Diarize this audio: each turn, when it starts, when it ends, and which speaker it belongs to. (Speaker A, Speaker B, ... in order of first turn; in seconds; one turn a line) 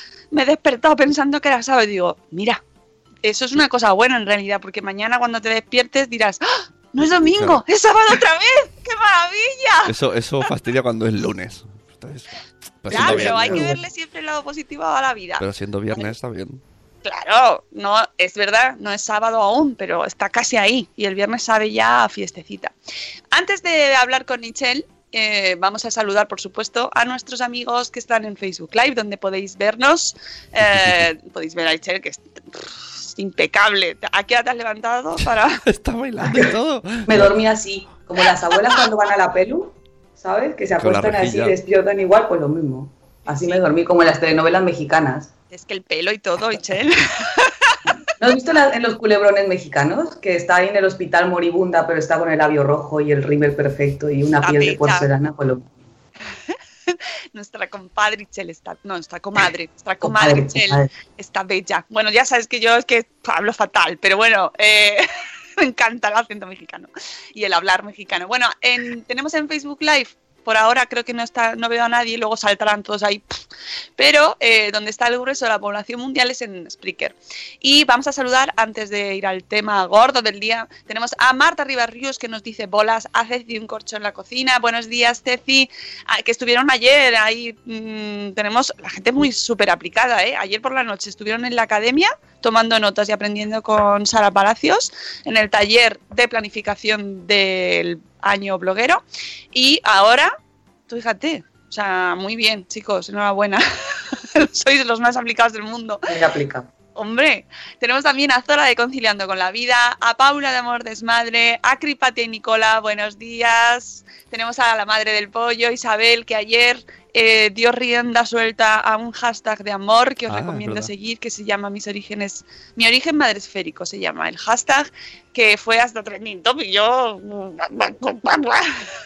Speaker A: 0.3-2.6
Speaker A: 3.2-9.9
Speaker B: 7.3-7.6
Speaker B: 9.9-12.3
Speaker B: 12.8-13.7
Speaker C: 12.9-13.8
Speaker A: 12.9-15.4
Speaker B: 15.4-16.6
Speaker A: 17.1-22.7
Speaker A: 23.3-35.6
Speaker B: 30.6-31.1
Speaker B: 35.6-37.3
Speaker C: 36.2-36.5
Speaker C: 37.1-45.3
Speaker B: 40.8-41.6
Speaker A: 43.3-43.6
Speaker A: 45.5-47.8
Speaker C: 48.2-55.7
Speaker A: 54.4-55.1
Speaker A: 56.5-65.1
Speaker C: 60.0-60.9
Speaker A: 65.6-73.3
Speaker A: 74.0-100.3
Speaker A: 100.9-106.1
Speaker C: 106.1-106.7
Speaker A: 107.0-128.9
Speaker B: 120.3-120.9